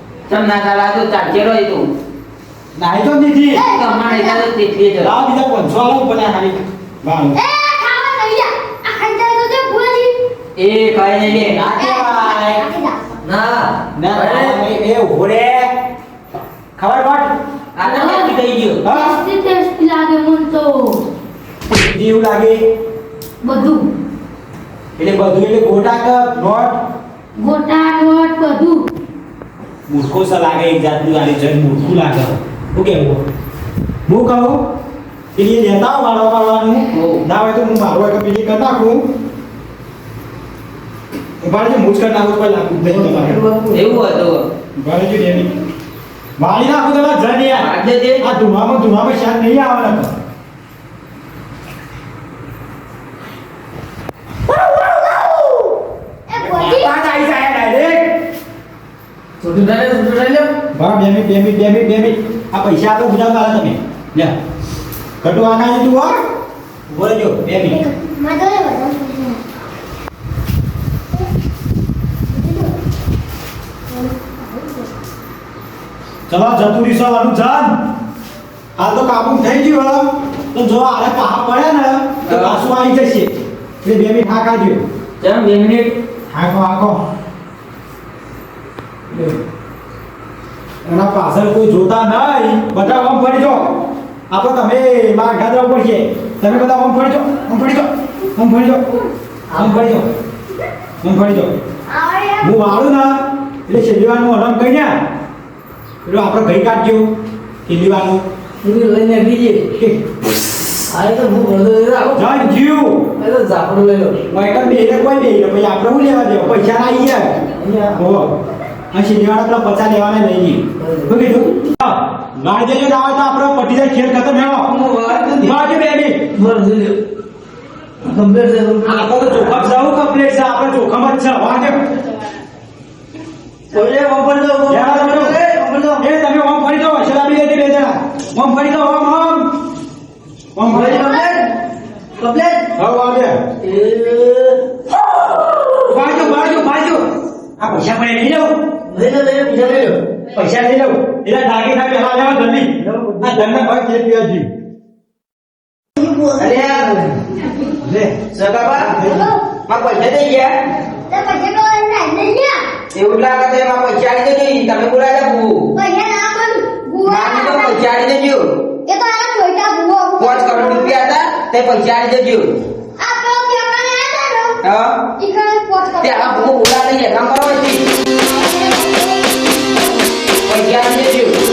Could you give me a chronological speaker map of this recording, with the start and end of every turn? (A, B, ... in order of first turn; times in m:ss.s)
0:00.3-0:01.8 A
0:02.7-0:03.6 B
0:03.5-0:04.4 C
0:03.7-0:05.1 A
0:05.0-0:07.4 B
0:07.3-0:10.2 C
0:10.6-0:11.6 A
0:11.3-0:12.6 B
0:11.7-0:13.0 C
0:13.2-0:14.6 D
0:14.0-0:15.7 B
0:16.8-0:17.3 B
0:17.8-0:18.8 A
0:17.8-0:18.4 E
0:18.8-0:19.1 B
0:18.9-0:21.0 E
0:21.7-0:22.6 B
0:23.4-0:23.8 E
0:25.0-0:26.8 B
0:27.4-0:28.8 E
0:29.9-0:33.2 B
0:34.1-0:34.6 B
0:35.4-0:39.0 B
0:36.9-0:37.2 A
0:41.4-0:43.4 B
0:42.8-0:44.0 D
0:43.7-0:44.4 A
0:44.8-0:45.5 B
0:46.4-0:47.7 B
0:47.6-0:48.2 A
0:48.2-0:50.1 B
0:56.3-0:56.9 C
0:56.4-0:58.0 B
0:59.4-1:00.5 D
1:00.7-1:04.3 B
1:05.2-1:06.1 B
1:06.9-1:07.8 B
1:07.6-1:09.4 C
1:12.3-1:12.7 C
1:13.9-1:14.8 C
1:16.3-1:17.8 B
1:18.8-1:23.3 B
1:22.2-1:22.6 A
1:23.8-1:24.8 B
1:25.2-1:25.9 A
1:26.3-1:27.0 B
1:30.8-1:33.7 B
1:34.3-1:38.8 B
1:39.5-1:39.9 D
1:39.5-1:40.1 B
1:41.0-1:41.6 B
1:41.9-1:42.6 C
1:42.4-1:44.9 B
1:46.0-1:47.1 B
1:47.6-1:48.2 B
1:48.6-1:49.7 D
1:50.9-1:52.3 D
1:52.1-1:53.1 B
1:53.2-1:54.2 D
1:54.3-1:57.3 B
1:57.6-1:58.2 D
1:58.0-1:58.3 B
1:58.9-2:04.7 B
2:00.8-2:01.2 D
2:04.6-2:05.5 D
2:05.4-2:06.2 B
2:06.3-2:07.0 D
2:08.0-2:09.7 D
2:08.8-2:11.8 B
2:13.7-2:16.0 D
2:14.7-2:15.4 B
2:16.0-2:19.5 B
2:20.5-2:21.3 B
2:20.7-2:21.4 D
2:22.2-2:22.7 D
2:22.8-2:23.4 B
2:23.6-2:24.6 D
2:25.8-2:27.0 B
2:27.6-2:28.5 B
2:28.9-2:30.0 D
2:30.3-2:34.5 B
2:32.9-2:33.3 D
2:36.0-2:37.2 D
2:36.4-2:36.9 A
2:37.8-2:38.3 B
2:38.3-2:38.9 A
2:38.8-2:39.3 B
2:39.0-2:39.4 C
2:39.7-2:40.5 A
2:41.1-2:42.6 C
2:42.9-2:45.7 A
2:45.7-2:47.8 C
2:47.1-2:48.4 A
2:48.8-2:51.0 C
2:50.2-2:52.5 A
2:53.0-2:54.6 C
2:54.6-2:55.0 A
2:55.2-2:56.6 C
2:56.0-2:57.8 A
2:58.2-2:59.4 C
3:00.4-3:01.3 A